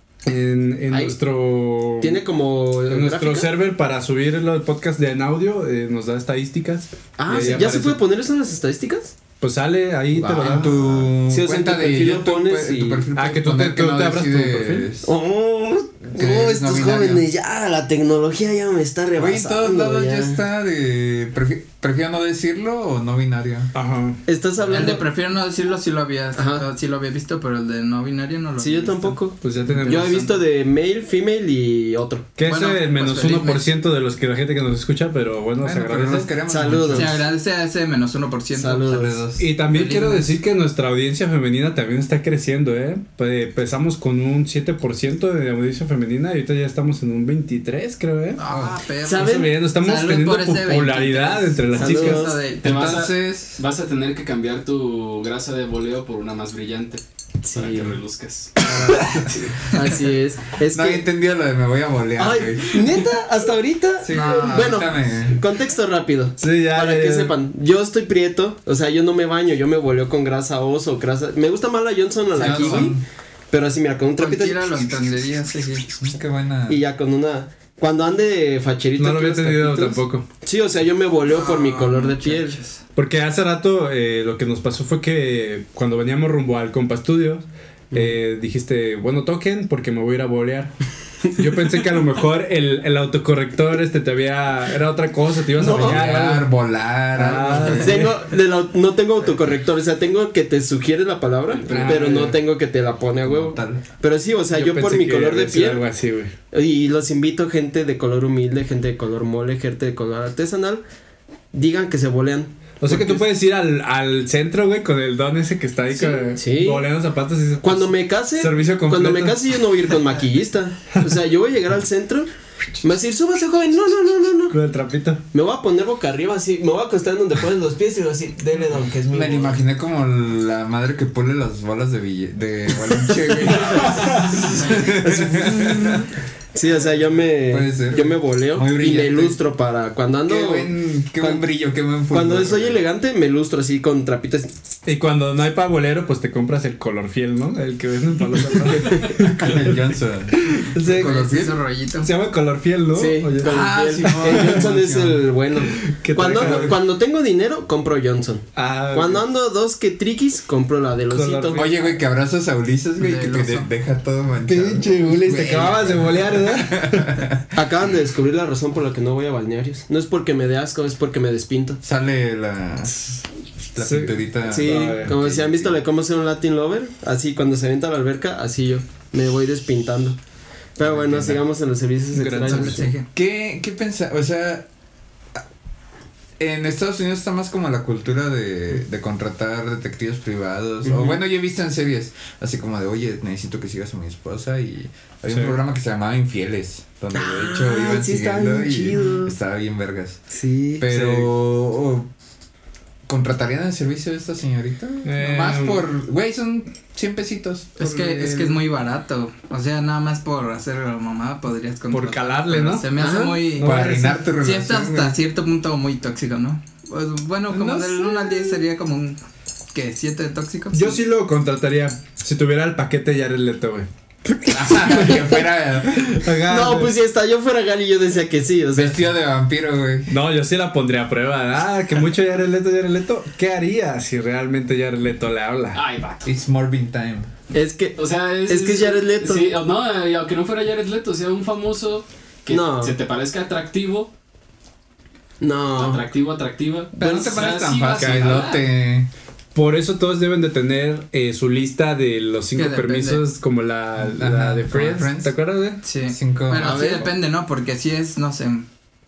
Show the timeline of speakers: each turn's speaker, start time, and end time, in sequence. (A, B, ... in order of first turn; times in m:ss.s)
0:00.2-0:02.2 A
0:00.9-0:01.1 B
0:02.0-0:03.5 B
0:02.9-0:08.0 A
0:07.2-0:09.1 B
0:09.4-0:10.7 A
0:10.2-0:15.1 C
0:10.2-0:13.1 B
0:13.2-0:14.9 A
0:15.0-0:20.4 B
0:16.1-0:17.3 C
0:19.2-0:23.7 C
0:23.7-0:24.2 A
0:24.2-0:25.1 B
0:24.7-0:30.4 D
0:26.3-0:26.6 B
0:28.6-0:32.3 B
0:29.4-0:30.3 A
0:32.4-0:36.3 A
0:32.4-0:33.7 D
0:35.6-0:37.2 C
0:36.5-0:37.2 B
0:37.0-0:40.4 D
0:38.5-0:39.2 B
0:38.9-0:39.5 C
0:39.4-0:48.4 A
0:48.4-0:52.9 D
0:48.4-0:48.8 C
0:49.0-0:49.5 B
0:49.1-0:52.4 A
0:51.7-0:52.4 B
0:52.6-0:58.5 E
0:52.6-0:53.6 C
0:57.4-0:58.0 B
0:58.6-1:01.1 B
0:59.7-1:00.0 D
1:00.7-1:03.0 C
1:02.2-1:13.0 B
1:04.0-1:05.4 C
1:04.1-1:04.8 D
1:06.4-1:07.3 A
1:12.3-1:13.0 C
1:12.4-1:12.9 D
1:13.5-1:14.8 B
1:14.2-1:15.9 D
1:16.0-1:16.8 C
1:16.7-1:22.6 B
1:19.0-1:20.2 A
1:21.2-1:22.8 D
1:23.0-1:36.5 A
1:35.5-1:36.1 B
1:35.6-1:38.1 C
1:37.1-1:38.1 A
1:37.6-1:45.9 B
1:41.7-1:42.4 A
1:41.7-1:42.0 C
1:43.2-1:43.8 C
1:44.5-1:46.3 A
1:46.5-1:50.8 B
1:51.5-1:53.2 B
1:52.8-1:59.9 A
1:55.9-1:56.9 B
1:57.6-2:02.3 B
2:02.8-2:04.6 B
2:04.5-2:05.2 A
2:05.3-2:09.6 B
2:09.1-2:16.1 C
2:14.4-2:14.8 D
2:14.7-2:16.0 B
2:16.5-2:21.4 B
2:17.5-2:19.4 C
2:20.2-2:22.8 C
2:22.1-2:24.7 B
2:24.8-2:29.8 A
2:28.8-2:29.0 B
2:28.9-2:31.6 C
2:30.4-2:31.2 A
2:30.8-2:32.1 D
2:32.0-2:34.7 A
2:32.9-2:41.6 B
2:33.4-2:35.3 C
2:35.6-2:36.8 A
2:36.2-2:36.8 C
2:38.6-2:39.2 A
2:41.1-2:41.8 A
2:41.5-2:47.4 C
2:43.0-2:43.7 D
2:44.4-2:47.2 A
2:45.3-2:45.8 B
2:47.5-2:51.8 B
2:51.8-2:55.8 C
2:53.8-2:55.2 A
2:54.4-3:00.2 B
3:00.8-3:02.9 B
3:00.8-3:01.4 C
3:02.1-3:02.9 A
3:02.4-3:03.1 D
3:03.1-3:04.7 C
3:06.4-3:20.2 C
3:10.8-3:11.2 B
3:15.3-3:15.6 A
3:17.1-3:19.3 B
3:20.3-3:20.9 B
3:20.8-3:22.1 C
3:20.9-3:21.3 A
3:23.1-3:28.6 C
3:25.0-3:25.9 A
3:27.8-3:39.2 D
3:31.9-3:34.2 A
3:33.0-3:33.4 B
3:33.6-3:35.2 C
3:37.5-3:38.6 C
3:39.7-3:41.0 D
3:40.7-3:43.9 A
3:44.4-3:46.3 C
3:44.9-3:45.2 A
3:46.1-3:46.9 A
3:46.5-3:49.0 B
3:48.7-3:50.2 C
3:50.1-3:55.8 A
3:55.7-3:56.3 E
3:56.2-3:57.3 C
3:57.5-3:59.5 B
3:58.0-4:04.1 E
4:02.5-4:02.9 B
4:05.4-4:06.1 B
4:05.7-4:08.6 E
4:06.9-4:09.1 C
4:07.0-4:07.3 B
4:08.0-4:08.3 A
4:09.5-4:15.8 A
4:12.5-4:13.2 D
4:14.0-4:15.3 C
4:15.8-4:18.7 D
4:16.1-4:17.1 C
4:16.6-4:17.1 B